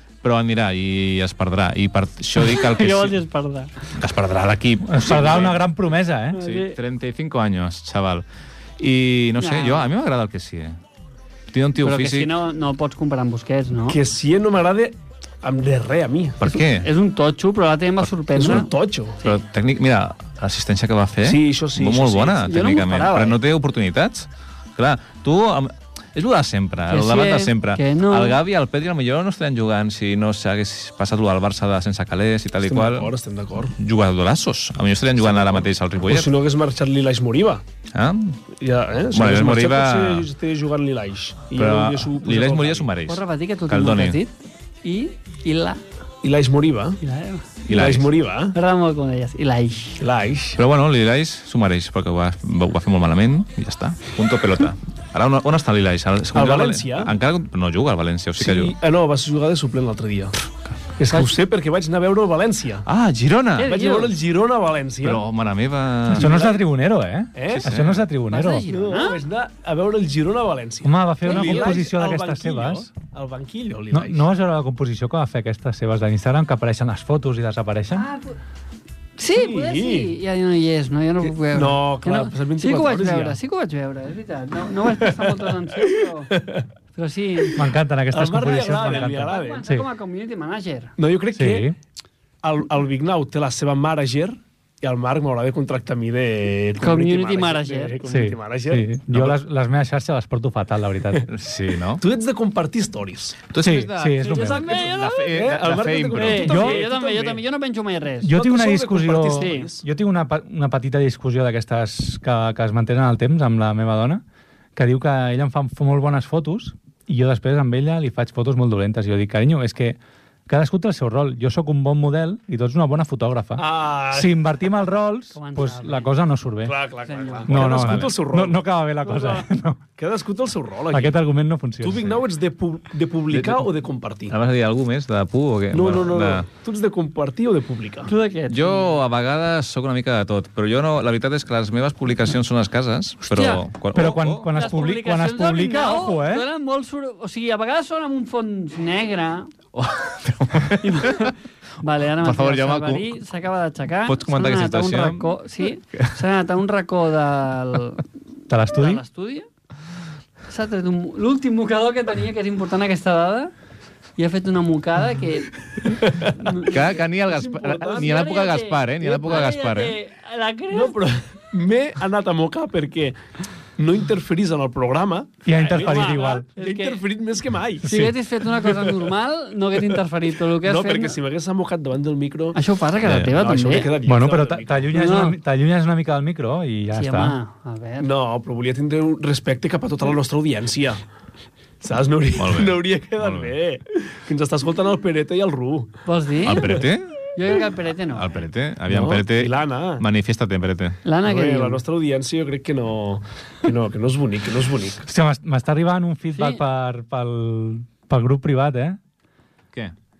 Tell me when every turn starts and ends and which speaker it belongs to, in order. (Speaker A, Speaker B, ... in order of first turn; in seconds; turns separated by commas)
Speaker A: 0.2-3.2, Speaker B: 2.4-3.7, Speaker A: 4.0-5.6, Speaker C: 4.8-6.4, Speaker B: 6.3-6.8, Speaker A: 6.3-8.2, Speaker A: 8.8-10.8, Speaker B: 9.4-9.9, Speaker A: 11.5-12.3, Speaker B: 11.8-14.0, Speaker D: 13.9-16.4, Speaker A: 16.4-16.9, Speaker B: 16.4-18.7, Speaker A: 18.0-18.6, Speaker D: 18.3-19.2, Speaker A: 19.2-33.1, Speaker D: 21.2-22.5, Speaker B: 22.4-23.4, Speaker B: 26.9-28.4, Speaker D: 32.6-33.7, Speaker A: 33.7-36.3, Speaker D: 35.2-37.6, Speaker A: 37.9-38.4, Speaker D: 38.6-42.9, Speaker A: 39.1-40.3, Speaker A: 41.5-44.2, Speaker B: 43.1-45.8, Speaker D: 46.2-47.0, Speaker B: 47.0-47.5, Speaker A: 47.6-48.1, Speaker D: 47.7-48.6, Speaker B: 48.5-50.0, Speaker D: 50.0-50.6, Speaker A: 50.6-58.7, Speaker D: 56.3-57.1, Speaker D: 58.4-60.4, Speaker D: 61.0-62.9, Speaker A: 62.9-63.7, Speaker B: 63.6-64.1, Speaker D: 63.6-65.2, Speaker A: 65.0-66.4, Speaker C: 66.1-68.7, Speaker D: 66.1-66.6, Speaker D: 67.3-67.7, Speaker A: 67.5-68.1, Speaker B: 68.3-69.2, Speaker D: 68.7-74.3, Speaker C: 70.8-72.9, Speaker B: 71.2-71.8, Speaker C: 73.9-78.1, Speaker B: 77.9-78.4, Speaker B: 79.2-86.3, Speaker D: 79.3-80.2, Speaker D: 81.2-83.4, Speaker D: 84.9-86.7, Speaker B: 86.9-87.6, Speaker C: 87.6-89.9, Speaker D: 88.1-89.6, Speaker B: 88.8-90.9, Speaker D: 91.0-91.7, Speaker C: 91.3-91.8, Speaker D: 92.4-99.4, Speaker B: 96.8-98.0, Speaker C: 98.0-101.3, Speaker A: 101.3-102.0, Speaker D: 102.0-103.4, Speaker A: 103.5-106.5, Speaker C: 103.6-104.8, Speaker B: 104.2-105.4, Speaker D: 105.2-107.4, Speaker B: 106.1-108.4, Speaker C: 106.5-106.9, Speaker C: 108.2-114.2, Speaker D: 108.3-109.8, Speaker B: 109.3-109.7, Speaker C: 114.8-126.8, Speaker D: 123.6-124.4, Speaker B: 125.3-126.1, Speaker D: 126.6-128.6, Speaker B: 127.0-127.6, Speaker C: 127.5-129.8, Speaker A: 127.6-128.1, Speaker B: 129.0-129.4, Speaker D: 130.0-131.2, Speaker C: 130.9-132.1, Speaker D: 131.8-134.3, Speaker A: 133.3-133.7, Speaker A: 134.3-136.4, Speaker D: 135.7-138.1, Speaker B: 138.1-138.9, Speaker A: 138.5-144.5, Speaker B: 143.3-143.6, Speaker C: 143.9-146.5, Speaker B: 144.5-149.5, Speaker A: 149.7-151.3, Speaker B: 150.8-158.0, Speaker A: 152.1-153.2, Speaker A: 154.0-155.4, Speaker C: 158.5-159.0, Speaker B: 158.7-159.5, Speaker B: 160.5-163.5, Speaker B: 164.2-166.9, Speaker D: 165.9-166.5, Speaker A: 166.5-170.0, Speaker D: 167.3-168.1, Speaker B: 167.7-171.0, Speaker D: 170.7-173.2, Speaker D: 173.8-179.1, Speaker C: 175.4-176.4, Speaker B: 175.6-177.0, Speaker B: 177.8-181.2, Speaker C: 177.9-178.1, Speaker D: 180.6-182.6, Speaker B: 182.5-183.9, Speaker A: 183.0-183.4, Speaker D: 183.2-185.0, Speaker C: 184.0-187.4, Speaker B: 184.9-185.4, Speaker B: 186.9-188.1, Speaker D: 188.0-191.0, Speaker D: 191.8-196.0, Speaker A: 192.4-193.5, Speaker B: 196.1-198.4, Speaker A: 196.4-197.2, Speaker A: 198.1-201.0, Speaker D: 198.9-200.0, Speaker B: 201.0-201.8, Speaker D: 201.2-205.0, Speaker C: 205.0-209.0, Speaker B: 206.3-206.6